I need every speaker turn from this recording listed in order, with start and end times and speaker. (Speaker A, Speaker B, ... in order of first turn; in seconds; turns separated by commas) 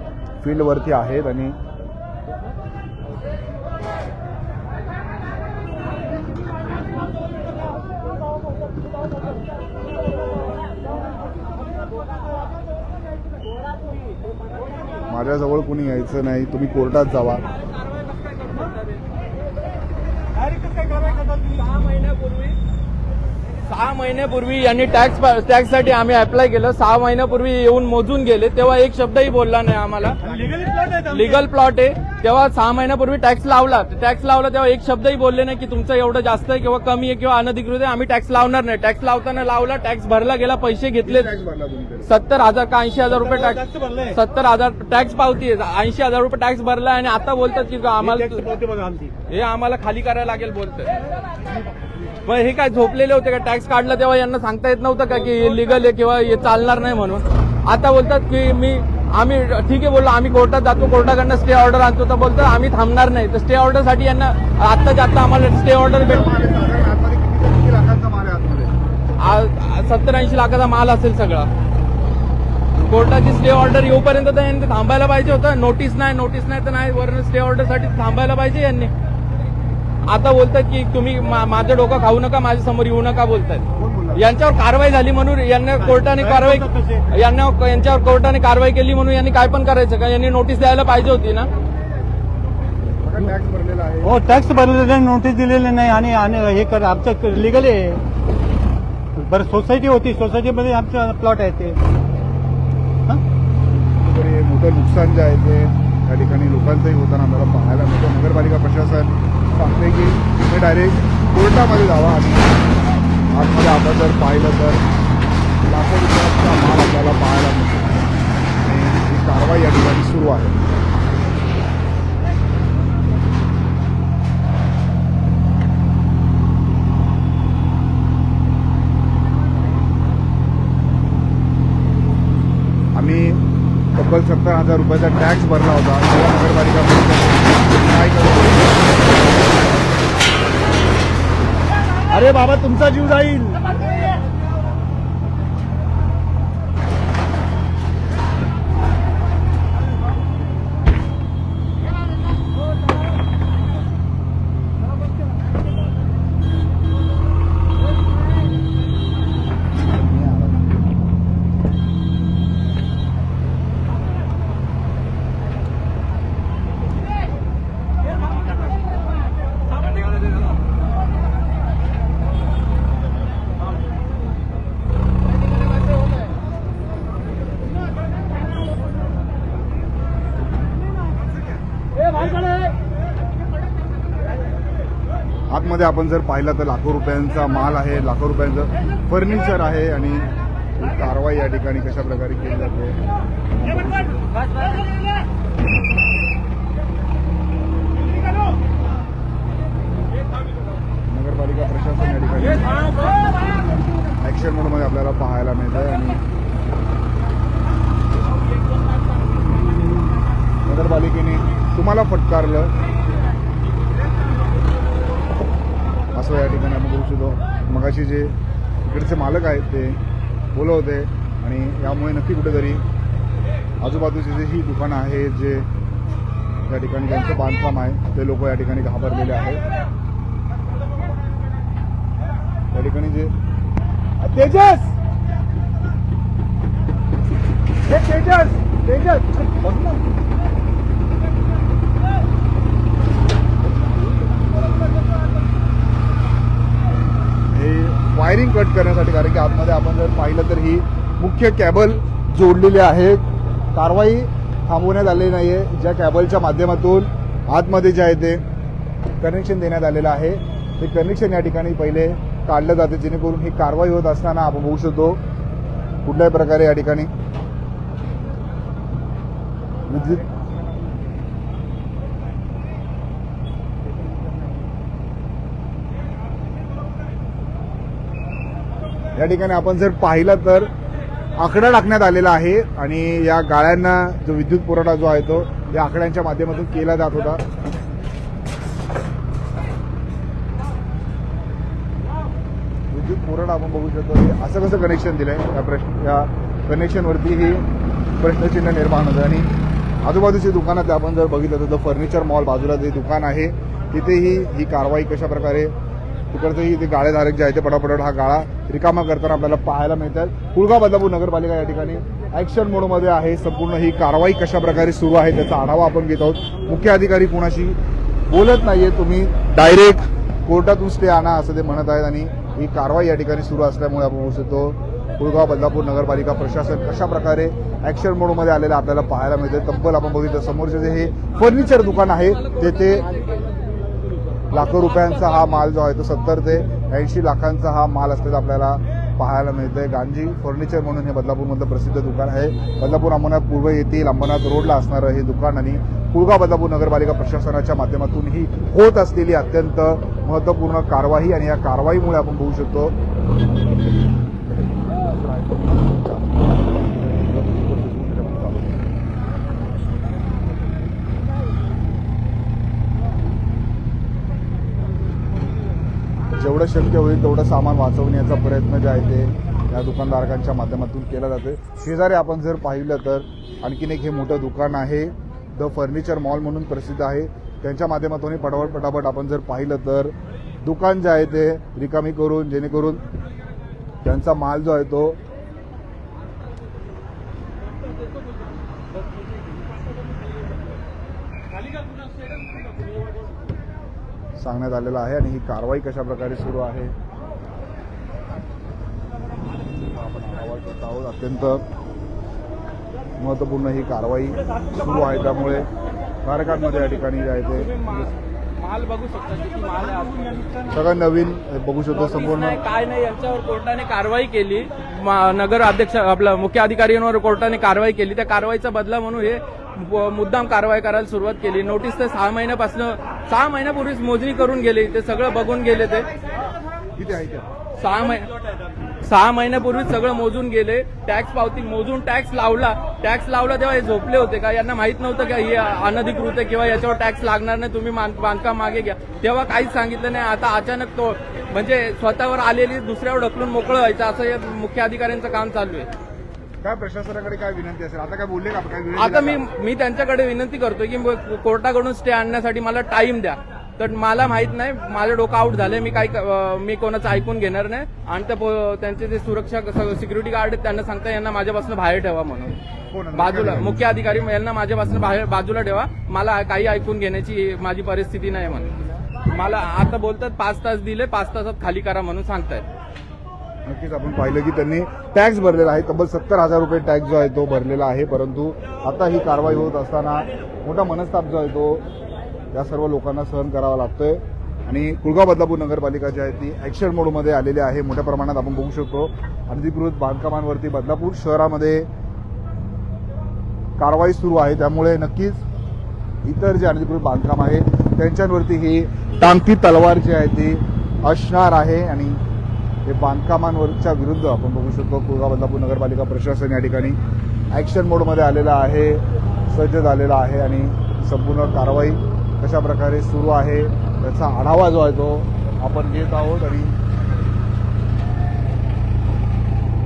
Speaker A: 0.4-1.6, Speaker A: 15.1-17.4, Speaker B: 17.6-19.0, Speaker B: 20.9-22.6, Speaker B: 23.6-41.3, Speaker C: 30.3-30.9, Speaker A: 41.0-42.2, Speaker B: 42.0-48.5, Speaker C: 43.7-44.0, Speaker C: 48.2-49.1, Speaker B: 49.3-51.0, Speaker B: 52.2-66.2, Speaker A: 65.9-68.7, Speaker B: 69.2-71.5, Speaker B: 72.8-78.9, Speaker B: 80.0-91.5, Speaker A: 83.8-84.2, Speaker C: 86.1-87.0, Speaker A: 93.0-94.2, Speaker C: 94.0-98.0, Speaker C: 99.2-101.8, Speaker A: 103.8-112.7, Speaker A: 113.3-114.8, Speaker A: 115.6-120.6, Speaker A: 132.9-133.4, Speaker A: 133.9-139.5, Speaker A: 142.1-143.9, Speaker A: 159.8-161.1, Speaker A: 185.5-193.0, Speaker A: 193.6-194.4, Speaker A: 201.1-203.0, Speaker A: 204.2-206.2, Speaker A: 210.6-212.7, Speaker A: 216.1-220.0, Speaker A: 220.5-222.8, Speaker A: 223.8-225.7, Speaker A: 226.7-229.6, Speaker A: 232.7-233.3, Speaker A: 234.2-234.9, Speaker A: 237.9-240.1, Speaker A: 247.5-253.2, Speaker A: 253.7-258.4, Speaker A: 259.2-265.2, Speaker A: 266.0-267.1, Speaker A: 269.9-270.3, Speaker A: 279.1-280.7, Speaker A: 281.4-287.4, Speaker A: 292.9-297.6, Speaker A: 298.2-299.5, Speaker A: 300.0-305.7, Speaker A: 306.3-317.8, Speaker A: 318.3-333.1, Speaker A: 334.5-352.9, Speaker A: 355.0-358.8, Speaker A: 366.4-383.0, Speaker A: 384.0-385.2, Speaker A: 394.4-396.9, Speaker A: 399.9-401.6, Speaker A: 403.2-405.7, Speaker A: 406.2-408.0, Speaker B: 407.6-410.5, Speaker A: 410.7-412.6, Speaker B: 411.9-426.1, Speaker A: 427.0-427.5, Speaker B: 427.8-428.3, Speaker B: 429.0-445.9, Speaker A: 446.6-449.4, Speaker B: 448.9-462.5, Speaker A: 462.9-463.8, Speaker B: 463.1-472.6, Speaker A: 473.6-481.8, Speaker A: 482.5-491.9, Speaker A: 493.8-495.4, Speaker A: 496.2-502.2, Speaker A: 502.9-507.0, Speaker A: 507.5-516.7